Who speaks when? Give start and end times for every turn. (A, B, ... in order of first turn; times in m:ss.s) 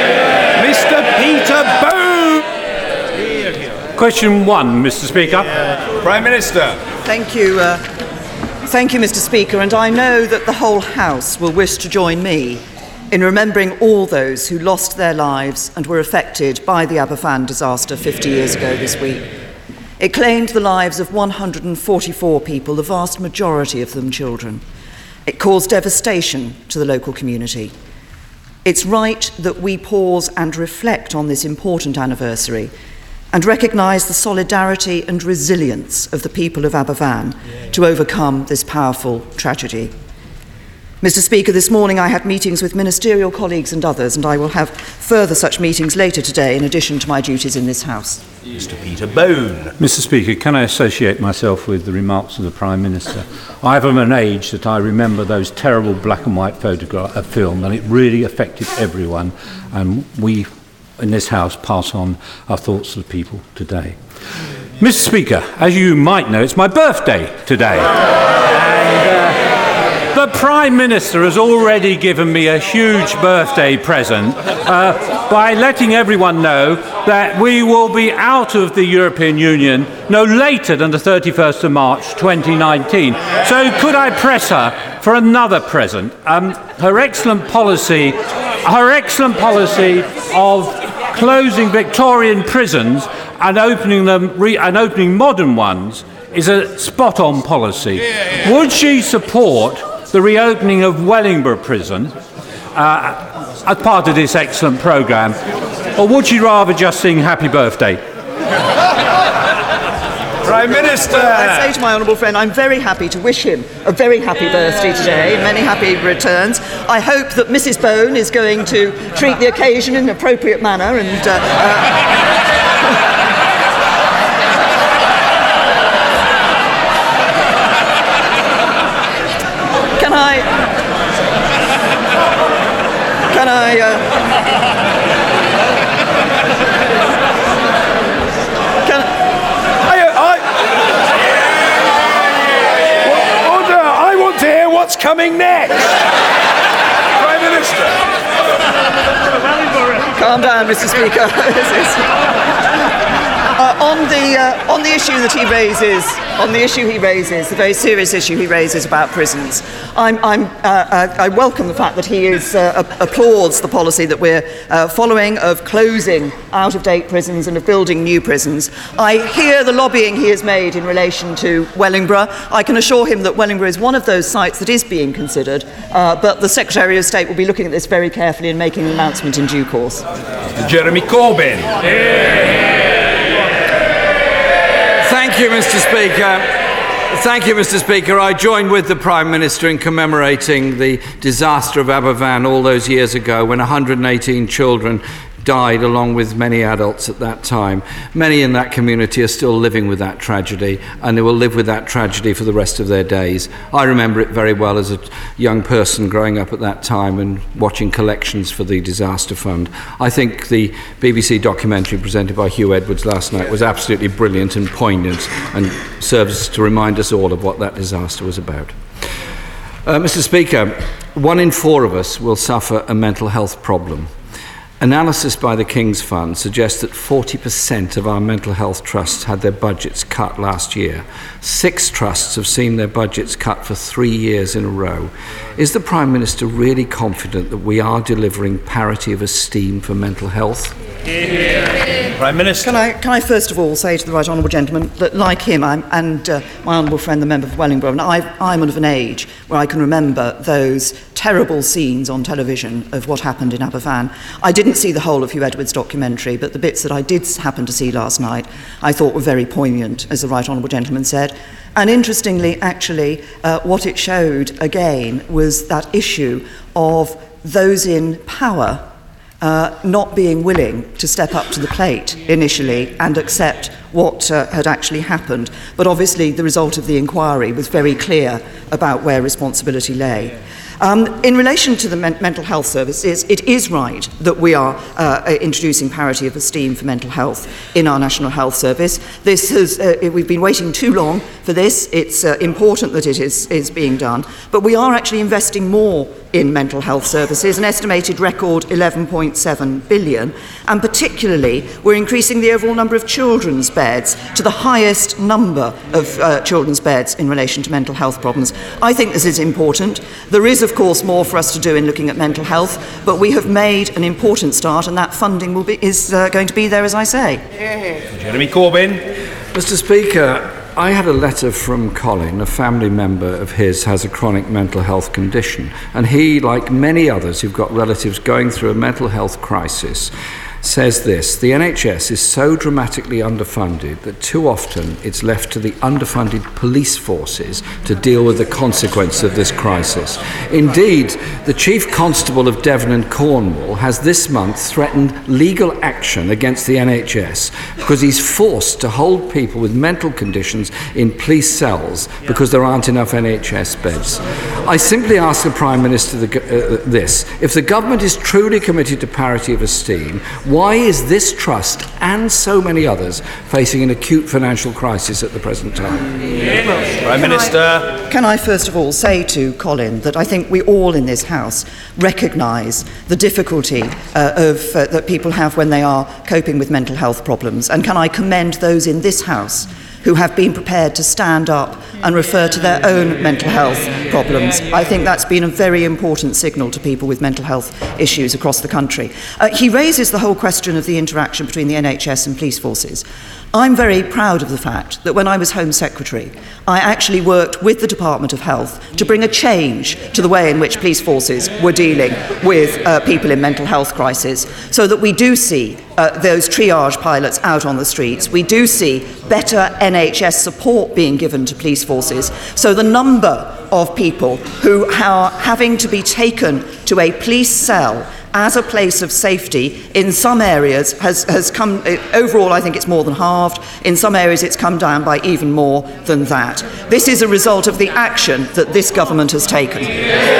0:00.5-0:02.4 A
0:04.0-0:05.5 B
0:06.0-0:06.8 A
0:07.0-0:07.8 C
0:08.7-0:19.3 C
0:20.0-0:24.6 C
0:25.3-0:27.7 C
0:28.6-0:32.7 C
0:33.3-0:39.9 C
0:41.0-0:48.2 C
0:49.8-1:04.0 B
1:04.8-1:07.9 B
1:08.4-1:09.4 B
1:10.1-1:42.1 B
1:42.7-1:45.4 B
1:46.0-1:48.0 B
1:50.4-1:51.6 A
1:51.0-2:02.0 C
2:10.0-2:10.5 C
2:13.3-2:14.0 C
2:19.9-2:20.4 A
2:23.1-2:25.8 A
2:27.2-2:27.9 A
2:30.1-2:32.0 C
2:33.6-3:00.0 C
3:00.5-3:01.7 A
3:05.0-3:06.5 D
3:07.1-3:38.7 D
3:39.8-3:44.1 D
3:44.8-4:00.7 D
4:02.2-4:02.7 A
4:02.6-4:28.8 C
4:29.4-5:17.4 C
5:18.1-5:19.0 A
5:19.5-6:06.1 D
6:07.0-6:07.9 A
6:07.2-7:10.0 C